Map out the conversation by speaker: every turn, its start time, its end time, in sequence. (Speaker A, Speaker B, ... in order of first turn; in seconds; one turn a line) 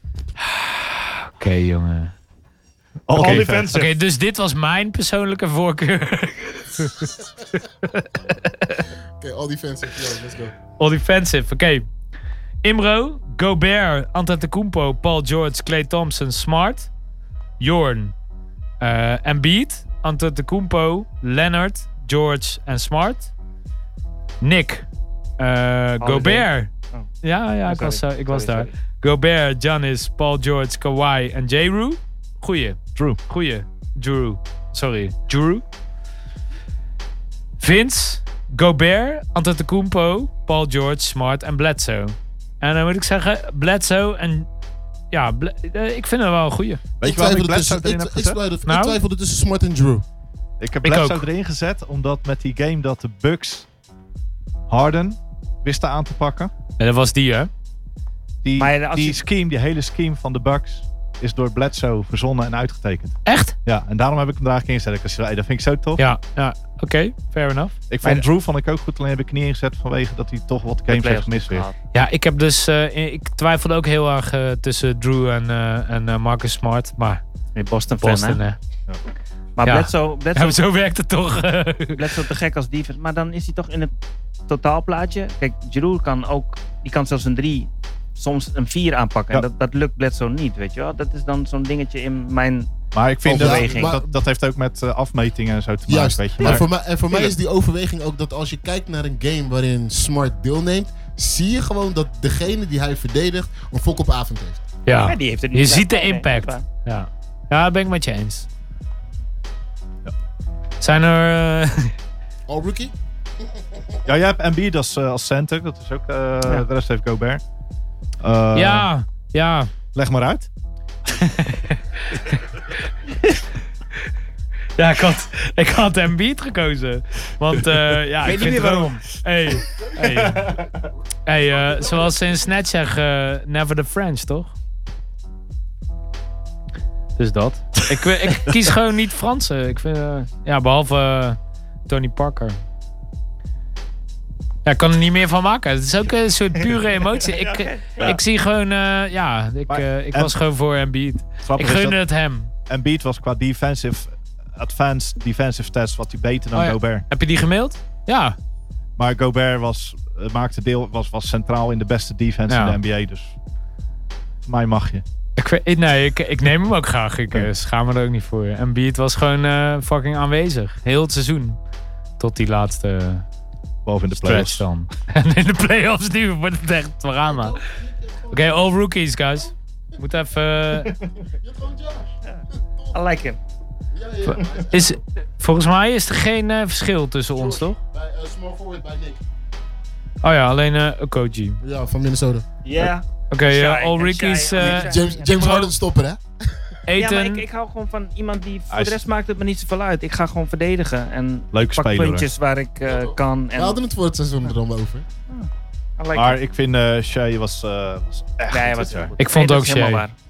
Speaker A: 0.4-2.1
Speaker B: 3.1-3.7
Speaker C: 3.1-3.9
Speaker A: 3.1-8.8
Speaker D: 9.2-10.5
Speaker A: 10.8-11.9
Speaker A: 12.6-16.9
Speaker A: 17.6-18.1
Speaker A: 18.8-23.3
Speaker A: 24.4-24.9
Speaker A: 25.4-26.7
Speaker C: 26.0-27.1
Speaker A: 27.2-35.6
Speaker C: 27.6-28.7
Speaker A: 37.6-44.5
Speaker A: 45.1-46.8
Speaker B: 47.0-48.4
Speaker D: 47.0-50.1
Speaker A: 48.6-49.0
Speaker B: 50.6-53.7
Speaker A: 50.8-51.2
Speaker B: 54.7-56.5
Speaker A: 56.8-57.5
Speaker B: 58.4-66.0
Speaker C: 58.6-59.2
Speaker A: 63.2-63.6
Speaker A: 66.0-67.8
Speaker B: 67.9-71.7
Speaker C: 70.9-71.7
Speaker A: 71.9-77.2
Speaker C: 77.5-78.4
Speaker A: 78.0-78.6
Speaker C: 79.6-80.6
Speaker A: 79.6-82.2
Speaker C: 81.9-83.9
Speaker C: 84.5-92.7
Speaker B: 92.9-97.3
Speaker D: 93.2-94.1
Speaker C: 93.3-94.0
Speaker D: 95.9-104.6
Speaker A: 104.8-108.5
Speaker C: 105.0-106.6
Speaker A: 110.8-111.9
Speaker D: 112.5-112.9
Speaker B: 114.0-117.4
Speaker B: 118.2-118.9
Speaker A: 118.5-119.7
Speaker B: 119.9-120.5
Speaker A: 121.1-123.3
Speaker A: 124.8-130.6
Speaker C: 128.2-129.0
Speaker A: 131.3-134.5
Speaker A: 137.2-142.6
Speaker B: 138.2-138.7
Speaker A: 144.6-152.5
Speaker C: 147.2-148.2
Speaker B: 149.7-150.3
Speaker B: 151.4-152.0
Speaker B: 152.7-157.1
Speaker A: 156.5-158.4
Speaker B: 159.0-163.3
Speaker A: 162.5-162.8
Speaker B: 164.4-165.0
Speaker A: 165.4-171.6
Speaker A: 172.2-173.2
Speaker B: 173.8-174.6
Speaker A: 174.1-177.6
Speaker D: 177.3-178.7
Speaker A: 178.3-181.0
Speaker D: 181.2-182.9
Speaker C: 182.2-183.4
Speaker D: 183.9-185.0
Speaker A: 184.3-187.8
Speaker D: 187.3-189.2
Speaker A: 190.2-191.6
Speaker D: 191.6-192.5
Speaker C: 192.6-195.3
Speaker A: 193.3-195.7
Speaker D: 194.6-196.7
Speaker A: 196.9-197.4
Speaker C: 196.9-203.8
Speaker B: 198.7-199.0
Speaker B: 201.5-202.3
Speaker D: 202.9-205.1
Speaker C: 205.3-206.4
Speaker B: 206.1-209.1
Speaker C: 208.5-210.1
Speaker A: 209.2-210.1